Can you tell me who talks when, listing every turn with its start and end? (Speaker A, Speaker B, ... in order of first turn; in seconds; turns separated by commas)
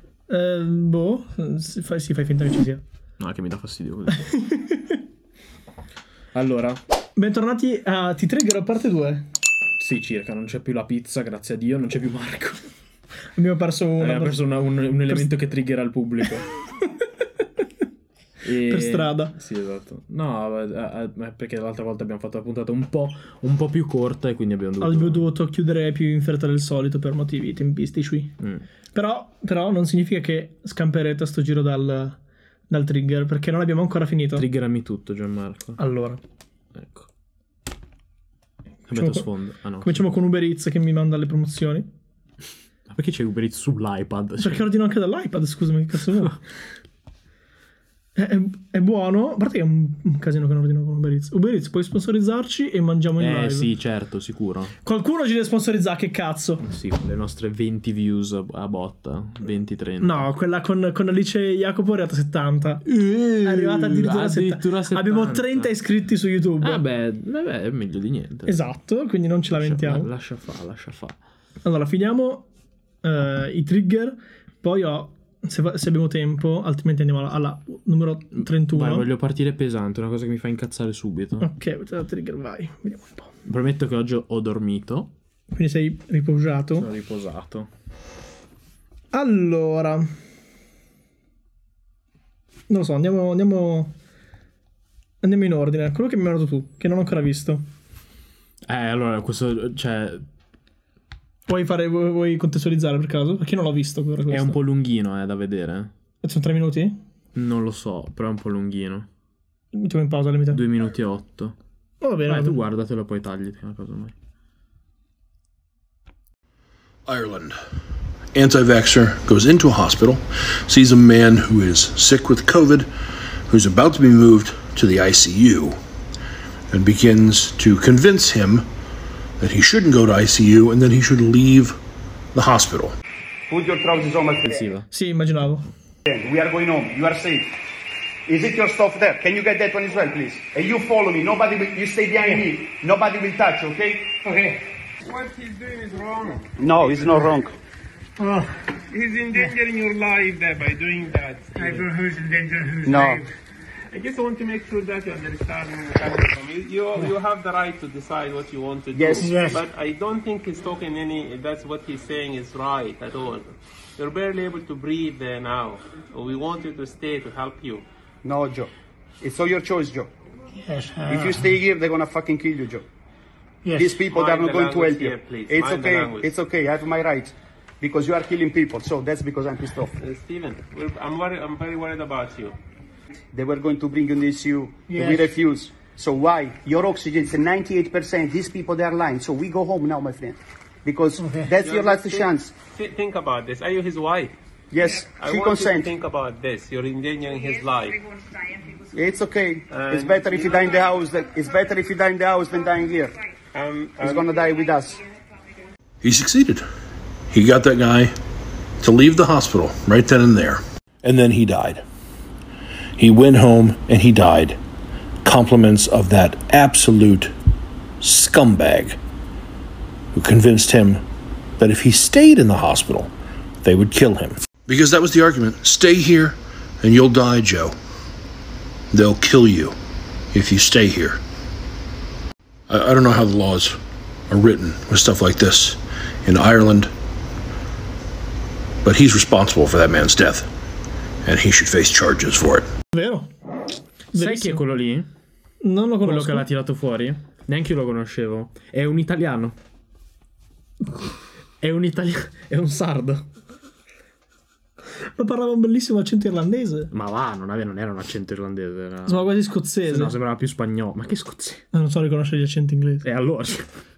Speaker A: 0.3-2.8, Speaker B: 3.2-4.3, Speaker A: 4.2-5.0, Speaker B: 6.3-6.8, Speaker A: 7.2-9.3, Speaker B: 9.8-12.6, Speaker A: 13.3-14.4, Speaker B: 14.0-16.5, Speaker B: 18.4-25.2, Speaker A: 18.5-19.3, Speaker A: 24.8-28.3, Speaker A: 28.9-32.2, Speaker A: 32.7-34.5, Speaker B: 34.3-35.8, Speaker A: 35.8-36.2, Speaker B: 36.7-37.1, Speaker B: 38.9-40.1, Speaker A: 38.9-39.3, Speaker A: 39.8-41.9, Speaker B: 42.9-44.6, Speaker A: 44.4-46.4, Speaker A: 48.1-53.7, Speaker B: 53.2-54.7, Speaker A: 54.8-56.6, Speaker B: 56.6-60.3, Speaker A: 60.0-66.8, Speaker B: 62.9-65.7, Speaker B: 66.6-68.6, Speaker A: 68.5-70.1, Speaker B: 69.5-71.2, Speaker A: 71.6-72.5, Speaker A: 73.0-79.1, Speaker B: 78.3-81.5, Speaker A: 81.4-83.3, Speaker B: 83.5-85.1, Speaker A: 85.5-86.9, Speaker B: 86.7-87.7, Speaker A: 89.1-90.1, Speaker A: 92.7-93.9, Speaker A: 95.2-97.6, Speaker B: 98.7-100.2, Speaker A: 101.5-104.6, Speaker B: 104.3-105.9, Speaker A: 106.2-107.0, Speaker B: 107.3-109.1, Speaker A: 109.7-110.6, Speaker B: 110.5-111.5, Speaker A: 112.0-112.6, Speaker B: 112.2-114.1, Speaker C: 117.0-117.6, Speaker C: 118.3-122.9, Speaker C: 123.5-125.8, Speaker C: 126.7-128.7, Speaker C: 129.4-131.8, Speaker C: 132.3-133.0, Speaker D: 133.5-134.6, Speaker B: 134.5-134.9, Speaker A: 134.9-135.7, Speaker D: 136.1-137.6, Speaker D: 138.2-144.2, Speaker E: 145.0-147.0, Speaker D: 146.6-147.5, Speaker E: 148.9-152.1, Speaker D: 152.8-153.2, Speaker E: 153.9-167.8, Speaker D: 158.9-159.5, Speaker D: 168.2-170.1, Speaker D: 171.1-172.8, Speaker D: 173.7-179.9, Speaker E: 174.1-176.3, Speaker E: 180.0-182.6, Speaker D: 183.3-192.5, Speaker E: 191.5-194.3, Speaker D: 194.7-195.9, Speaker E: 195.2-198.0, Speaker D: 198.9-203.2, Speaker E: 199.7-200.8, Speaker E: 203.5-204.3, Speaker D: 204.0-205.0, Speaker C: 206.0-206.6, Speaker C: 207.3-208.1, Speaker C: 208.8-211.8, Speaker C: 213.0-214.6, Speaker C: 215.2-217.3, Speaker C: 218.0-219.0, Speaker C: 220.1-221.0, Speaker C: 221.6-223.1, Speaker C: 223.6-227.8, Speaker C: 228.9-229.8, Speaker C: 230.3-231.2, Speaker C: 232.7-236.9, Speaker C: 238.8-240.5, Speaker C: 241.2-242.7, Speaker A: 242.9-243.3, Speaker A: 244.1-244.6, Speaker B: 244.1-245.1, Speaker A: 245.6-246.4, Speaker B: 246.0-249.5, Speaker B: 251.6-253.2, Speaker A: 255.2-256.9, Speaker B: 256.9-261.6, Speaker A: 259.1-260.1, Speaker A: 261.7-263.1, Speaker B: 263.0-263.7